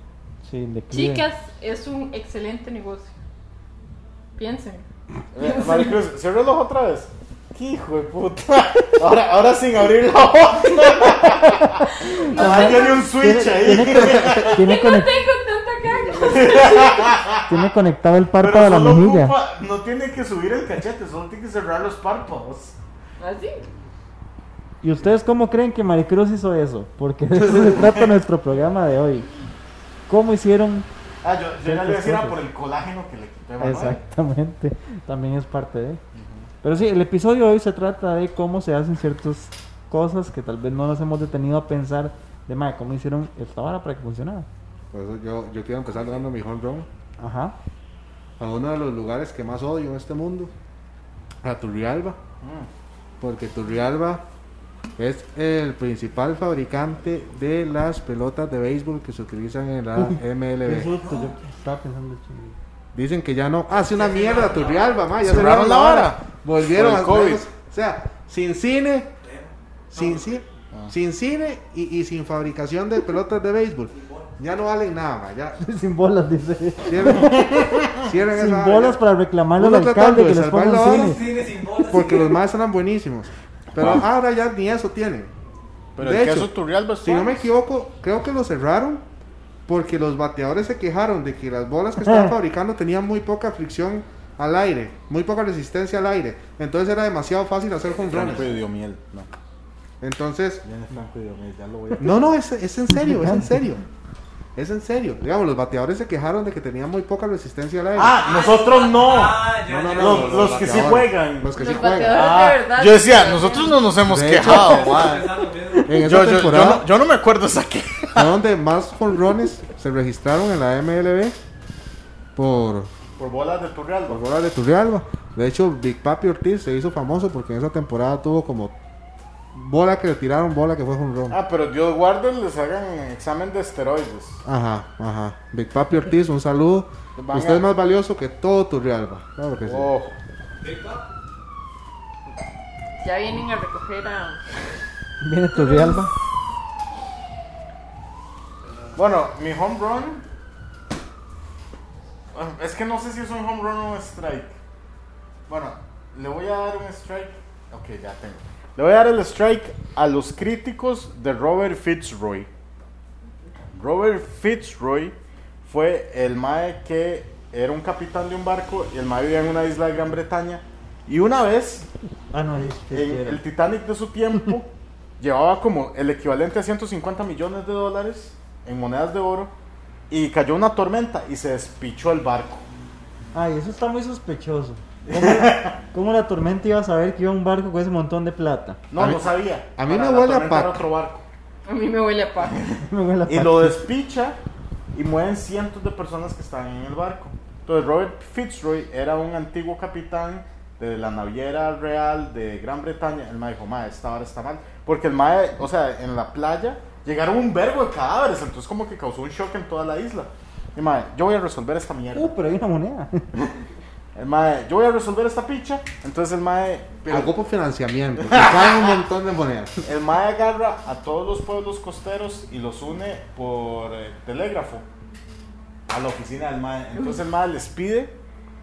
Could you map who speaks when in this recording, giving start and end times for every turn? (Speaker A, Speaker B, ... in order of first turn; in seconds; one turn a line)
Speaker A: 0.4-1.2
Speaker B: 0.9-3.2
Speaker B: 4.4-4.8
Speaker C: 5.3-14.6
Speaker B: 5.4-6.0
Speaker B: 11.9-13.1
Speaker A: 12.0-15.1
Speaker B: 14.5-17.2
Speaker C: 16.2-17.6
Speaker A: 17.5-19.3
Speaker C: 18.4-22.7
Speaker B: 23.2-23.6
Speaker A: 24.8-29.3
Speaker C: 27.5-27.9
Speaker A: 30.1-30.9
Speaker C: 31.2-34.0
Speaker A: 31.6-32.4
Speaker A: 33.6-36.0
Speaker C: 36.1-36.5
Speaker A: 36.6-44.5
Speaker D: 44.9-46.9
Speaker A: 47.2-47.5
Speaker D: 48.4-50.5
Speaker D: 51.4-52.2
Speaker C: 52.4-52.7
Speaker D: 53.2-54.2
Speaker D: 55.0-60.9
Speaker A: 60.0-62.6
Speaker E: 61.0-61.3
Speaker D: 62.9-69.1
Speaker E: 63.7-65.0
Speaker C: 65.2-67.4
Speaker E: 69.2-70.4
Speaker D: 69.9-75.6
Speaker E: 73.9-74.3
Speaker A: 75.6-77.6
Speaker D: 76.9-79.0
Speaker C: 77.1-78.1
Speaker A: 78.3-81.2
Speaker D: 79.6-85.3
Speaker E: 80.9-82.4
Speaker C: 83.8-84.0
Speaker C: 86.0-87.5
Speaker D: 86.0-86.5
Speaker D: 87.0-89.0
Speaker D: 89.7-98.6
Speaker A: 92.0-92.3
Speaker C: 98.0-99.3
Speaker D: 100.0-100.6
Speaker C: 100.6-102.2
Speaker D: 102.0-103.8
Speaker A: 102.9-103.6
Speaker D: 104.5-108.2
Speaker C: 107.9-118.3
Speaker E: 108.1-110.9
Speaker D: 109.7-112.4
Speaker B: 111.5-113.8
Speaker D: 114.0-115.1
Speaker E: 114.4-116.0
Speaker D: 115.8-116.8
Speaker D: 118.2-121.4
Speaker D: 122.3-122.9
Speaker C: 123.2-124.2
Speaker D: 124.1-128.7
Speaker D: 129.5-131.4
Speaker C: 131.3-134.4
Speaker D: 134.4-139.9
Speaker C: 137.2-137.6
Speaker C: 139.6-140.2
Speaker E: 140.6-141.0
Speaker B: 143.0-144.4
Speaker A: 145.2-146.1
Speaker B: 145.5-146.1
Speaker E: 148.7-148.9
Speaker C: 148.9-150.2
Speaker C: 152.3-154.6
Speaker C: 155.5-162.5
Speaker C: 163.7-171.8
Speaker A: 172.3-173.4
Speaker C: 172.9-179.5
Speaker C: 180.1-182.6
Speaker A: 183.3-188.8
Speaker C: 185.1-185.8
Speaker C: 188.9-191.2
Speaker D: 188.9-190.8
Speaker B: 191.7-192.6
Speaker C: 192.4-194.4
Speaker A: 192.8-193.8
Speaker C: 194.9-212.3
Speaker A: 212.1-213.3
Speaker C: 214.1-217.3
Speaker D: 217.1-219.8
Speaker C: 218.2-218.9
Speaker C: 219.8-224.8
Speaker C: 225.9-228.1